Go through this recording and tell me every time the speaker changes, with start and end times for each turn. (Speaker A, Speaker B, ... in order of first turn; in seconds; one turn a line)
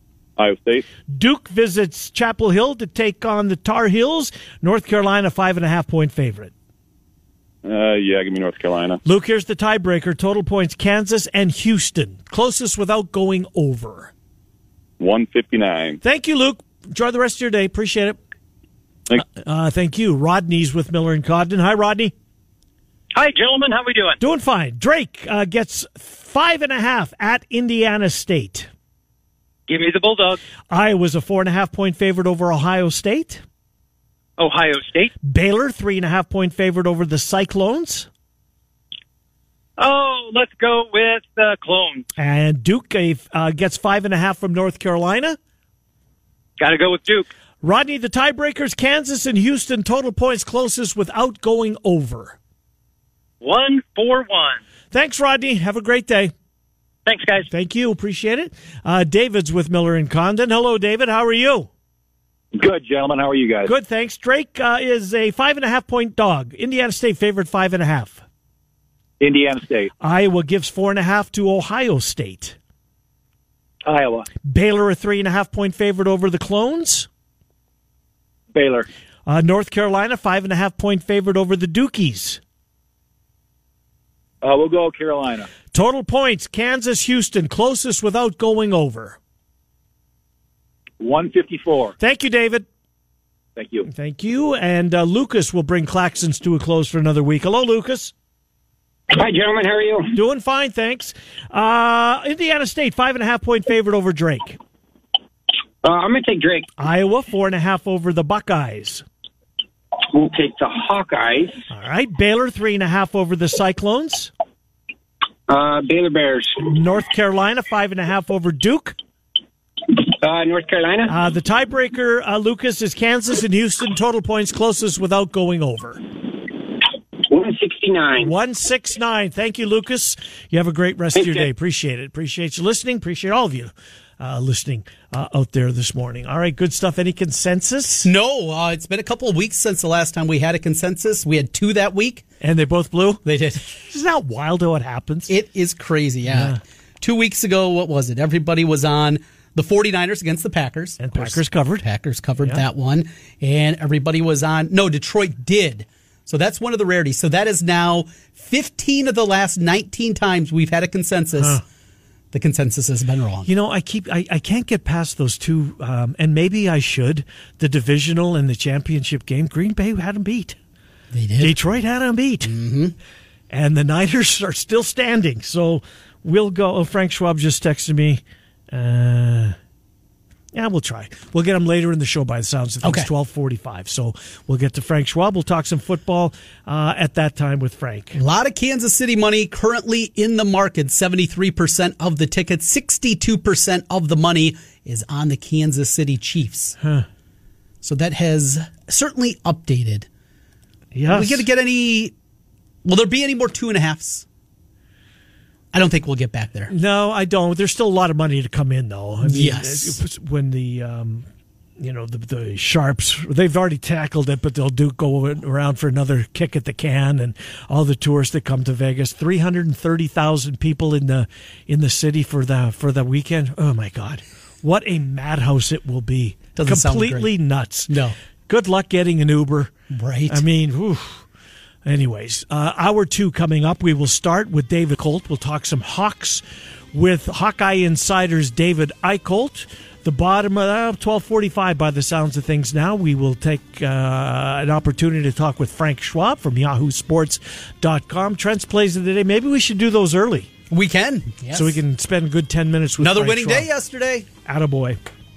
Speaker A: 0.4-0.8
Speaker B: 1.1-6.5
Speaker A: 7.6-9.0
Speaker B: 9.0-14.1
Speaker A: 15.0-16.0
Speaker B: 16.0-18.2
Speaker B: 19.2-22.1
Speaker C: 23.1-24.2
Speaker B: 24.2-28.7
Speaker C: 29.7-30.4
Speaker B: 30.7-33.4
Speaker C: 34.4-35.1
Speaker B: 35.2-38.1
Speaker C: 39.8-42.0
Speaker B: 42.2-45.4
Speaker C: 46.6-47.3
Speaker B: 47.6-52.4
Speaker C: 53.4-54.6
Speaker B: 54.9-56.3
Speaker C: 57.0-57.5
Speaker B: 57.5-61.7
Speaker D: 62.5-63.7
Speaker B: 63.6-68.2
Speaker D: 69.2-69.9
Speaker B: 70.0-72.5
Speaker D: 73.9-74.2
Speaker B: 74.5-77.1
Speaker D: 78.5-78.8
Speaker B: 79.2-82.4
Speaker D: 84.5-85.5
Speaker B: 85.7-89.2
Speaker D: 91.0-91.9
Speaker B: 92.0-92.7
Speaker D: 93.6-93.8
Speaker B: 93.8-98.1
Speaker E: 99.1-100.1
Speaker B: 100.1-104.6
Speaker E: 105.8-106.7
Speaker B: 106.8-109.0
Speaker E: 110.1-111.5
Speaker B: 111.7-114.3
Speaker E: 115.5-116.6
Speaker B: 116.7-119.0
Speaker E: 120.2-121.1
Speaker B: 121.1-126.0
Speaker E: 127.3-128.3
Speaker B: 128.2-138.1
Speaker E: 131.2-131.5
Speaker F: 138.0-142.2
Speaker B: 142.4-145.3
Speaker F: 143.2-143.6
Speaker F: 145.3-161.6
Speaker B: 146.3-146.6
Speaker B: 151.0-151.8
Speaker B: 161.4-161.6
Speaker F: 162.3-163.5
Speaker B: 163.5-170.6
Speaker F: 171.1-171.6
Speaker B: 171.4-172.5
Speaker F: 172.4-172.9
Speaker B: 173.5-179.6
Speaker B: 180.5-188.2
Speaker F: 182.8-183.1
Speaker F: 188.1-196.7
Speaker B: 196.8-197.0
Speaker F: 197.8-200.1
Speaker B: 200.9-201.4
Speaker F: 201.1-202.1
Speaker F: 202.8-204.2
Speaker F: 205.7-206.7
Speaker B: 206.7-211.2
Speaker F: 209.2-210.0
Speaker B: 211.8-227.9
Speaker F: 226.5-227.3
Speaker F: 227.9-228.2
Speaker B: 228.5-229.7
Speaker F: 229.9-230.4
Speaker B: 230.3-231.2
Speaker B: 231.8-250.5
Speaker F: 250.7-251.8
Speaker B: 251.5-253.7
Speaker F: 253.0-254.3
Speaker B: 254.4-255.0